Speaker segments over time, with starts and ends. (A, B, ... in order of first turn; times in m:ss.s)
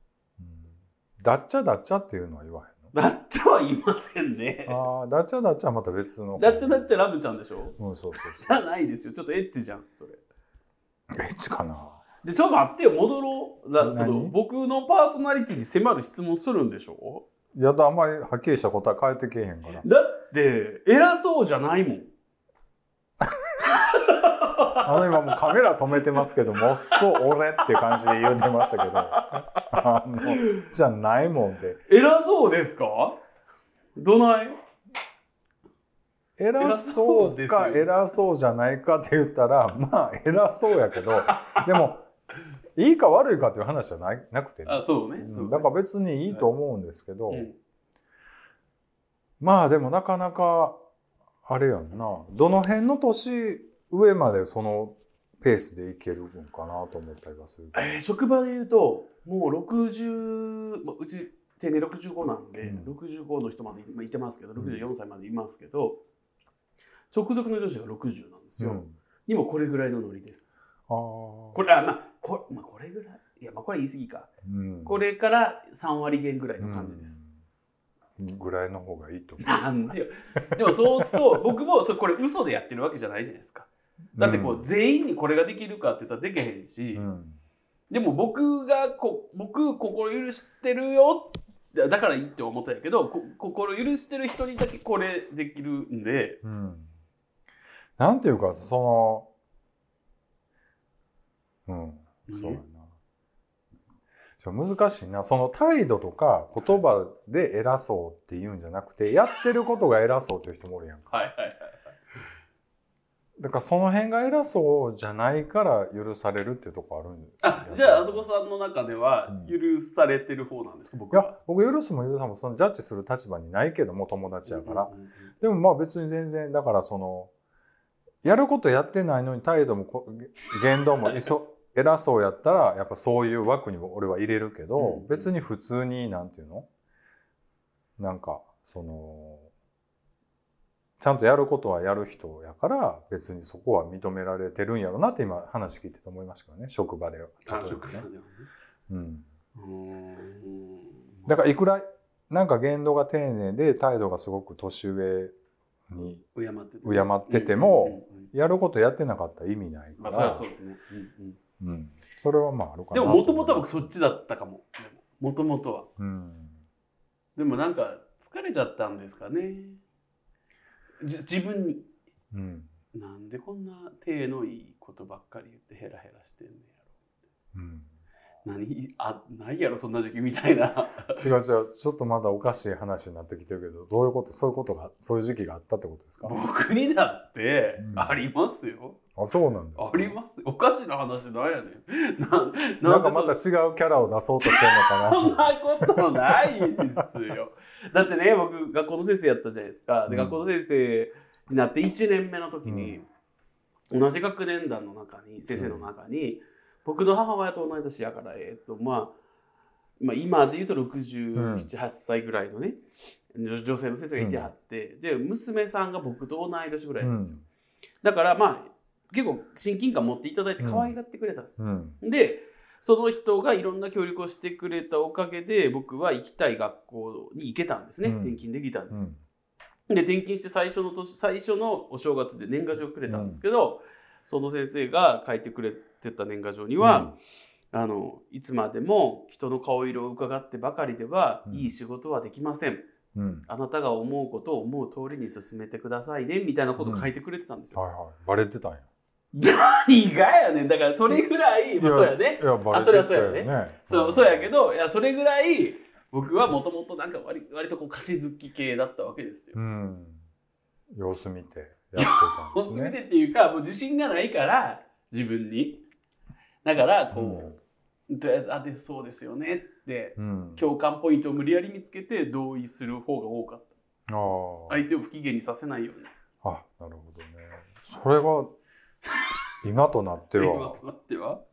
0:00.4-0:02.9 A
0:02.9-0:04.8 B
0:04.7-0:06.9 A
0:06.4-0:10.2 B
0:07.8-0:08.6 A
0:11.1-0:12.0 A
0:12.2-0:17.2 B
0:13.8-0:14.4 A
0:17.5-0:19.8 A
0:19.8-0:22.1 B
0:23.6-0:25.6 B
0:24.8-0:31.8 A
0:26.9-0:30.7 B
0:31.9-0:33.2 B
0:34.0-0:34.6 B
0:36.4-0:42.1 A
0:36.6-0:37.9 B
0:41.2-0:41.7 B
0:42.8-0:47.5 A
0:44.7-0:45.7 B
0:47.3-0:47.6 B
0:49.4-0:50.8 A
0:51.5-0:58.0 A
0:57.7-1:06.0 B
1:02.6-1:02.9 A
1:04.6-1:04.8 A
1:07.1-1:10.5 B
1:08.6-1:08.9 A
1:10.9-1:11.6 A
1:11.6-1:14.3 B
1:14.4-1:15.0 A
1:14.8-1:17.2 B
1:16.6-1:17.3 A
1:18.2-1:19.6 A
1:19.4-1:27.0 B
1:20.6-1:21.2 A
1:24.2-1:24.6 A
1:26.9-1:27.4 A
1:27.9-1:36.4 B
1:36.4-1:36.9 A
1:38.0-1:39.3 A
1:41.7-1:42.9 A
1:42.3-1:42.6 B
1:44.4-1:51.2 A
1:51.1-1:51.9 B
1:53.4-1:58.2 A
1:57.4-2:01.3 B
2:01.1-2:07.3 A
2:04.5-2:05.3 B
2:08.2-2:16.7 A
2:14.8-2:15.3 B
2:18.0-2:19.5 A
2:21.0-2:28.1 A
2:27.5-2:28.5 B
2:28.9-2:29.3 A
2:29.6-2:31.3 B
2:31.3-2:35.4 A
2:35.9-2:36.2 A
2:36.4-2:38.3 B
2:36.8-2:40.5 A
2:40.0-2:41.4 B
2:41.6-2:43.9 A
2:42.9-2:45.9 B
2:46.0-2:46.6 A
2:47.4-2:49.8 B
2:51.0-2:51.9 B
2:52.3-2:52.7 A
2:52.9-2:56.8 B
2:57.5-2:57.9 A
2:58.4-3:01.2 B
3:01.1-3:06.4 A
3:06.2-3:09.0 B
3:07.8-3:08.2 A
3:09.1-3:10.2 A
3:09.8-3:13.4 B
3:12.8-3:17.1 A
3:14.4-3:23.1 B
3:20.1-3:20.4 A
3:22.6-3:23.0 A
3:23.9-3:29.1 B
3:25.5-3:25.9 A
3:30.0-3:32.8 B
3:31.4-3:31.7 A
3:33.3-3:37.4 B
3:34.2-3:34.5 A
3:37.0-3:37.4 A
3:38.0-3:49.1 B
3:40.6-3:40.9 A
3:41.6-3:42.0 A
3:48.0-3:49.2 A
3:49.9-3:57.1 B
3:53.1-3:53.4 A
3:56.8-3:57.1 A
3:57.7-4:02.8 B
4:03.1-4:03.5 A
4:03.5-4:07.8 B
4:06.8-4:07.1 A
4:07.7-4:08.9 A
4:09.3-4:19.6 B
4:11.8-4:14.5 A
4:19.5-4:20.2 A
4:20.9-4:23.0 A
4:22.0-4:25.8 B
4:26.6-4:27.5 B
4:27.1-4:27.6 A
4:28.1-4:33.7 B
4:30.2-4:30.6 A
4:34.1-4:34.8 A
4:34.7-4:36.1 B
4:36.4-4:38.5 A
4:39.6-4:40.8 A
4:40.4-4:41.4 B